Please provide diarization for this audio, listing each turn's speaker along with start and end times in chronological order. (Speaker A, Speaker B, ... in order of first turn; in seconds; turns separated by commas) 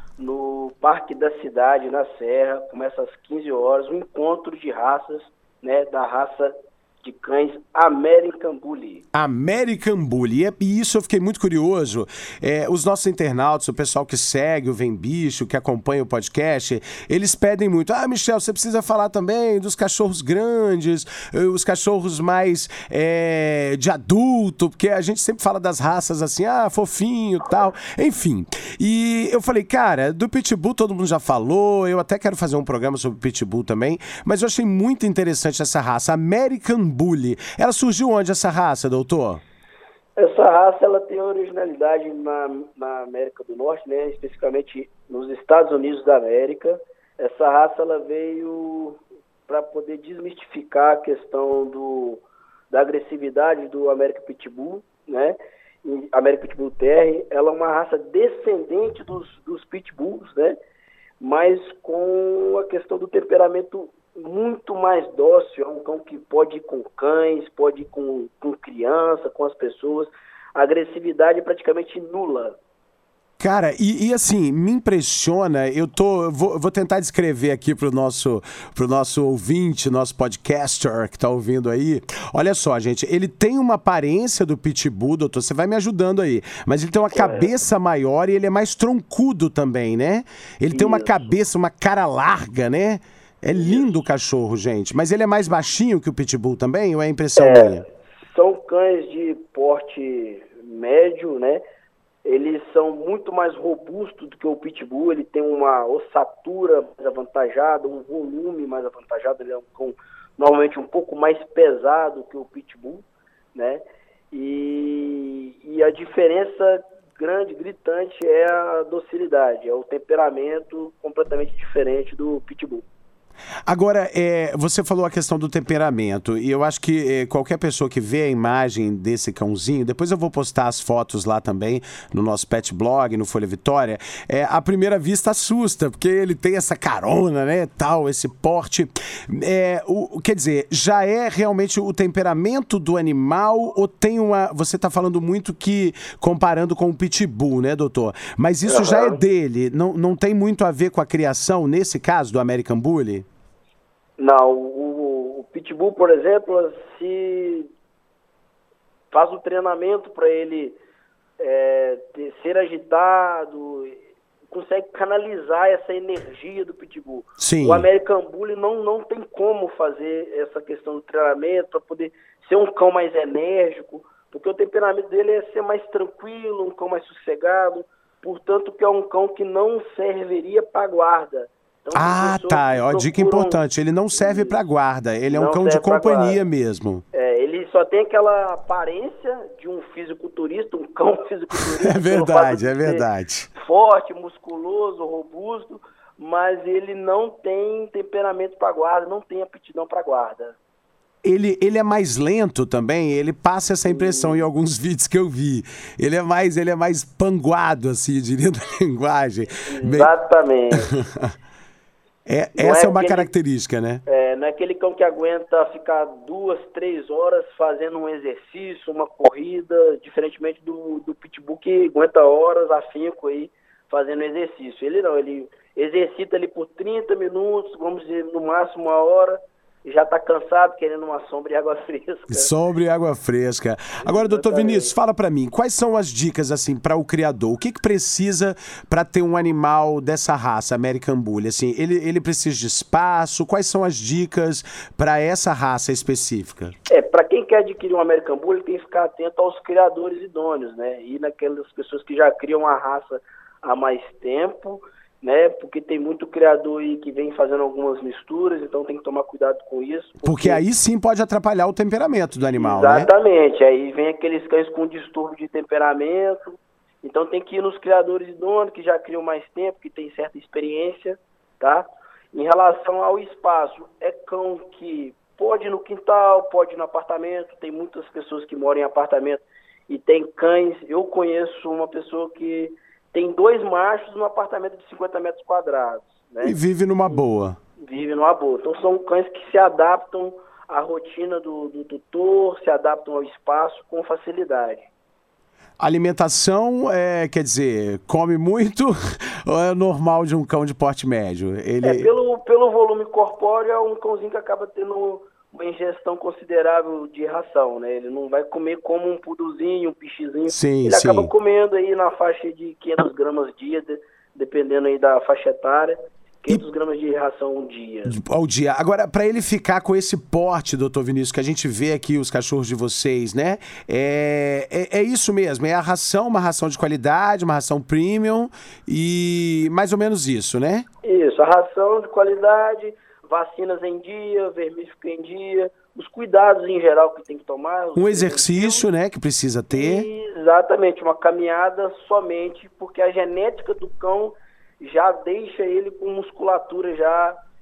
Speaker A: 0.2-9.0, Speaker B: 9.1-39.4, Speaker A: 40.2-60.6, Speaker A: 61.2-72.6, Speaker B: 73.4-97.8, Speaker A: 87.1-87.5, Speaker A: 90.7-91.2, Speaker A: 93.5-93.9, Speaker A: 97.4-97.8, Speaker A: 98.3-101.6, Speaker A: 102.2-122.8, Speaker B: 123.7-153.3, Speaker A: 148.7-149.2, Speaker A: 154.2-157.7, Speaker A: 159.1-160.8, Speaker A: 161.4-183.6, Speaker B: 167.4-167.9, Speaker B: 181.9-187.0, Speaker A: 184.2-184.6, Speaker A: 185.3-186.4, Speaker A: 187.1-200.6, Speaker B: 191.6-193.5, Speaker B: 201.2-210.1, Speaker A: 203.9-204.5, Speaker A: 209.6-210.9, Speaker B: 210.8-211.3, Speaker B: 212.3-214.0, Speaker A: 212.6-213.3, Speaker A: 214.1-232.5, Speaker B: 232.3-246.7, Speaker A: 234.0-234.9, Speaker A: 246.9-260.6, Speaker B: 260.2-263.1, Speaker A: 262.6-287.2, Speaker B: 286.4-287.6, Speaker A: 287.8-294.9, Speaker B: 295.8-302.1, Speaker A: 301.8-318.1, Speaker B: 310.5-311.3, Speaker B: 318.1-330.9, Speaker A: 331.0-338.9, Speaker B: 338.0-340.1, Speaker A: 339.7-347.4